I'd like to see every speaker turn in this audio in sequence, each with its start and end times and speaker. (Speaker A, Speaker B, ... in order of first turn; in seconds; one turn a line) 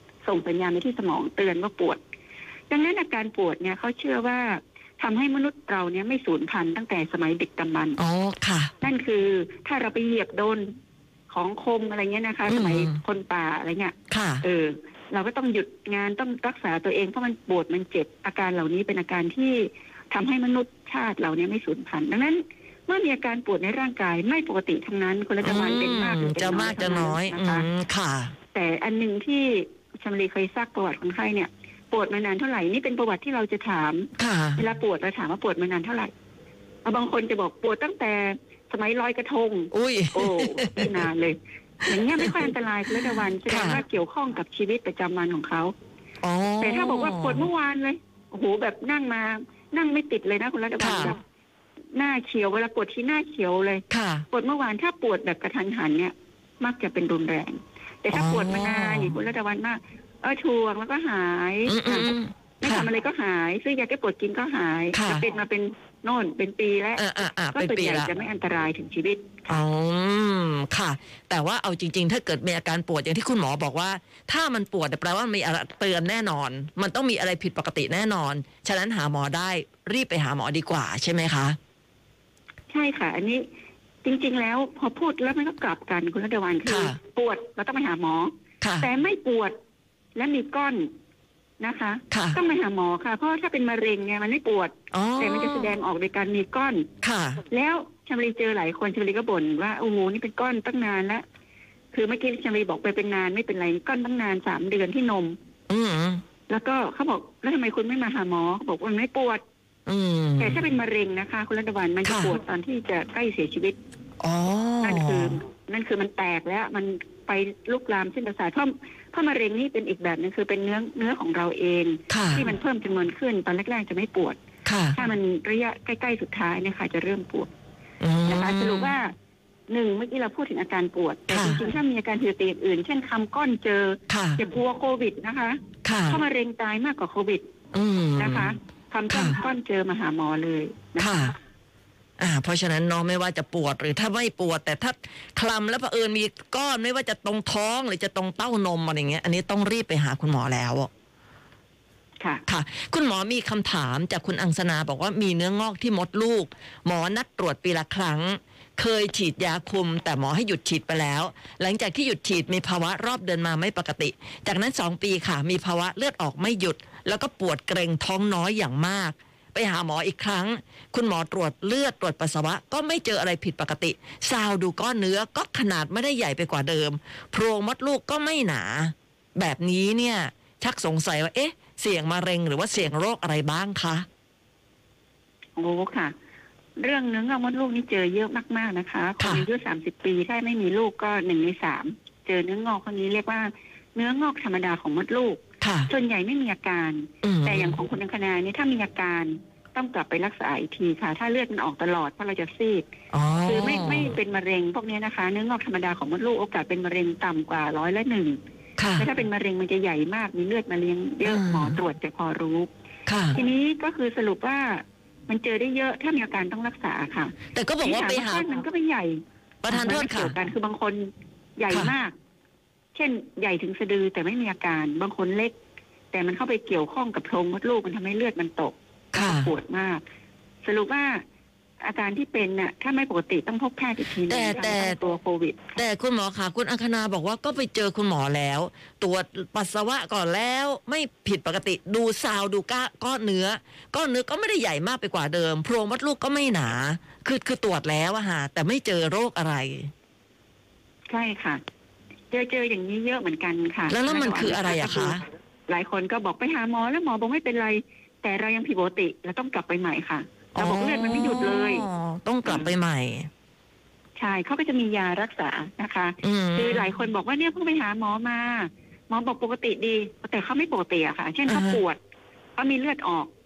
Speaker A: 0.2-2.0
Speaker A: 2.7-8.0
Speaker B: 8.0-8.7
Speaker A: 8.8-10.7
Speaker A: 11.3-27.6
Speaker B: 12.5-13.0
Speaker B: 14.1-14.4
Speaker B: 25.4-28.3
Speaker A: 28.5-36.1
Speaker B: 34.2-34.6
Speaker A: 36.8-45.7
Speaker B: 39.7-41.0
Speaker B: 41.9-42.5
Speaker B: 43.1-43.8
Speaker B: 46.2-47.5
Speaker A: 46.6-51.2
Speaker B: 50.8-51.1
Speaker A: 51.9-69.6
Speaker B: 53.9-54.2
Speaker B: 58.1-59.1
Speaker B: 61.7-62.9
Speaker B: 64.9-65.2
Speaker B: 67.0-68.1
Speaker B: 69.5-81.6
Speaker A: 82.7-83.5
Speaker A: 84.0-89.5
Speaker B: 86.7-87.0
Speaker B: 88.6-88.9
Speaker A: 90.2-90.9
Speaker A: 91.6-96.9
Speaker B: 92.1-92.4
Speaker B: 94.9-95.7
Speaker B: 97.0-97.4
Speaker A: 97.5-101.2
Speaker A: 101.9-105.4
Speaker B: 105.7-106.2
Speaker A: 106.5-109.4
Speaker B: 109.8-110.6
Speaker A: 110.4-113.8
Speaker B: 112.0-112.3
Speaker B: 114.2-115.3
Speaker A: 114.8-124.4
Speaker B: 122.1-122.4
Speaker B: 124.6-125.0
Speaker A: 124.9-127.5
Speaker B: 128.0-128.9
Speaker A: 128.2-129.1
Speaker A: 129.7-137.5
Speaker B: 131.3-131.6
Speaker B: 134.1-134.4
Speaker B: 135.8-136.2
Speaker B: 137.7-138.5
Speaker A: 138.2-141.3
Speaker B: 139.1-139.4
Speaker B: 141.0-141.3
Speaker B: 142.2-150.9
Speaker B: 152.5-184.1
Speaker A: 185.6-186.1
Speaker A: 186.8-202.8
Speaker B: 189.2-189.4
Speaker B: 195.6-195.9
Speaker B: 197.2-197.8
Speaker B: 203.1-204.1
Speaker A: 203.4-208.4
Speaker B: 208.8-209.1
Speaker A: 209.0-212.7
Speaker B: 211.2-211.8
Speaker B: 213.1-213.4
Speaker A: 213.3-222.1
Speaker B: 217.5-218.4
Speaker B: 219.6-220.3
Speaker A: 222.9-225.5
Speaker A: 226.1-230.0
Speaker B: 229.1-229.5
Speaker A: 230.6-231.2
Speaker A: 231.8-235.8
Speaker B: 234.2-235.0
Speaker B: 235.8-249.9
Speaker A: 251.1-251.6
Speaker A: 252.3-261.9
Speaker B: 253.9-255.2
Speaker B: 260.5-263.3
Speaker A: 264.2-272.0
Speaker B: 266.2-266.9
Speaker B: 271.5-271.8
Speaker A: 272.6-273.3